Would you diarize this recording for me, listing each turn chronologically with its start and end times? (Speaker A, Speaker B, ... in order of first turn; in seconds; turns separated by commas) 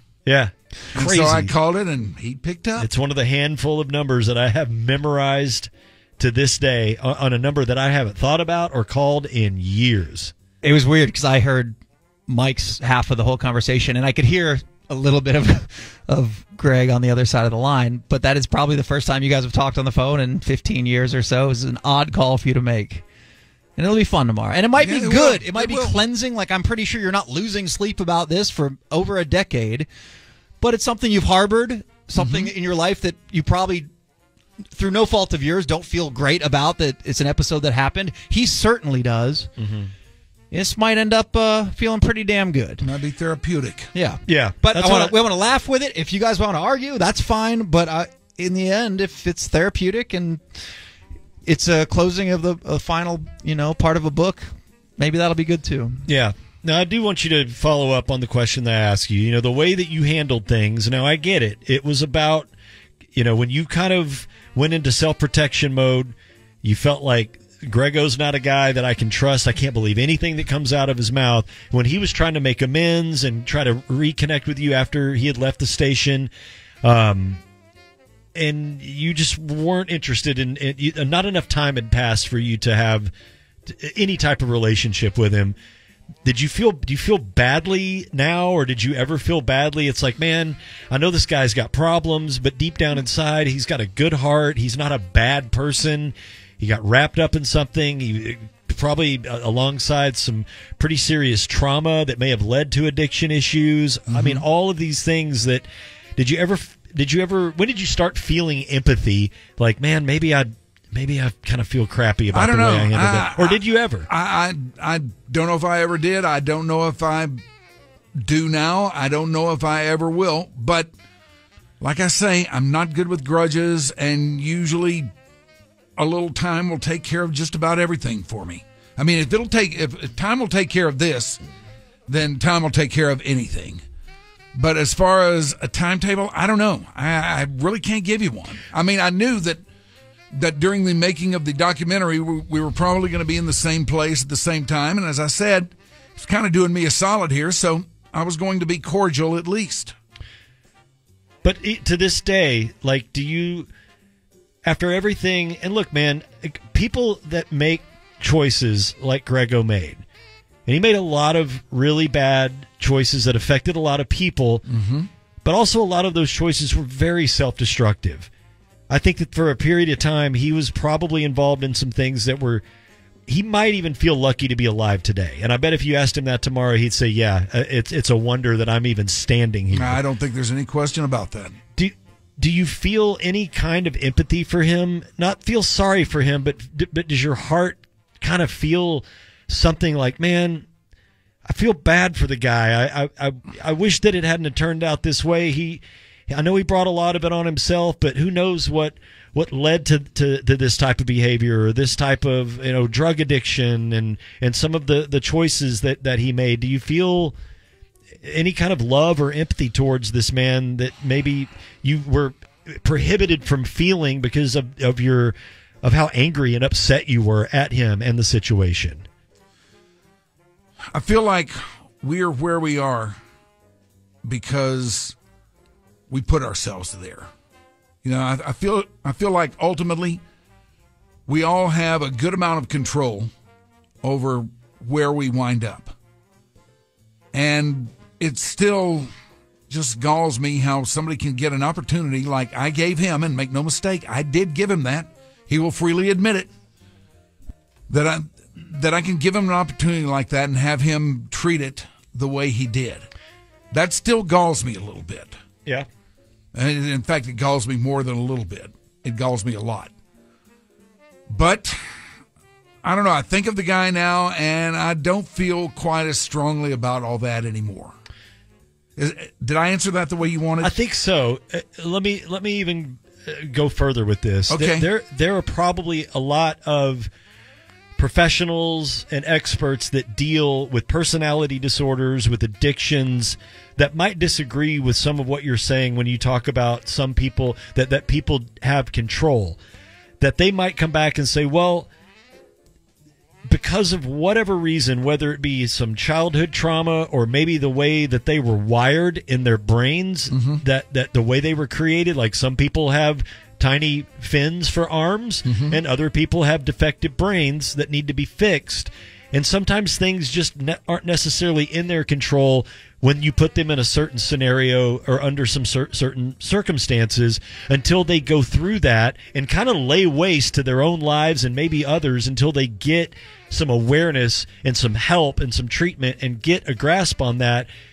Speaker A: 0.3-1.5, Speaker B: 0.9-2.9, Speaker A: 2.8-10.3, Speaker C: 10.6-11.8, Speaker C: 12.3-23.1, Speaker C: 23.8-29.9, Speaker B: 24.8-26.0, Speaker C: 30.6-33.9, Speaker B: 32.2-32.5, Speaker C: 34.8-39.5, Speaker A: 39.6-39.9, Speaker C: 40.5-42.9, Speaker B: 42.8-43.9, Speaker C: 43.9-50.6, Speaker A: 44.3-45.2, Speaker C: 51.5-56.0, Speaker A: 56.1-62.5, Speaker A: 63.1-76.3, Speaker A: 76.8-77.4, Speaker A: 78.3-83.1, Speaker A: 83.7-85.6, Speaker A: 86.2-114.1, Speaker B: 104.1-104.4, Speaker B: 112.3-117.4, Speaker B: 118.2-120.9, Speaker B: 121.8-125.1, Speaker B: 126.0-131.4, Speaker B: 132.1-133.8, Speaker B: 134.6-139.6, Speaker B: 140.3-149.9, Speaker A: 151.4-153.7, Speaker A: 154.7-160.0, Speaker A: 160.7-164.7, Speaker B: 164.7-165.1, Speaker A: 165.4-168.3, Speaker A: 168.9-172.6, Speaker A: 173.3-180.0, Speaker B: 179.7-181.6, Speaker A: 181.8-190.7, Speaker A: 191.5-207.4, Speaker A: 208.2-219.1, Speaker B: 220.9-223.2, Speaker B: 224.2-225.2, Speaker B: 226.1-227.3, Speaker B: 228.0-230.2, Speaker B: 231.3-233.3, Speaker B: 234.0-235.9, Speaker B: 237.3-239.1, Speaker B: 239.7-246.5, Speaker B: 247.9-253.1, Speaker B: 253.7-255.3, Speaker B: 256.5-259.9, Speaker B: 261.3-261.9, Speaker B: 262.8-267.9, Speaker B: 269.0-270.7, Speaker A: 270.6-277.1, Speaker B: 274.5-274.9, Speaker A: 278.0-289.6, Speaker A: 290.2-291.9, Speaker A: 293.5-327.7, Speaker B: 300.3-300.6, Speaker B: 305.5-305.8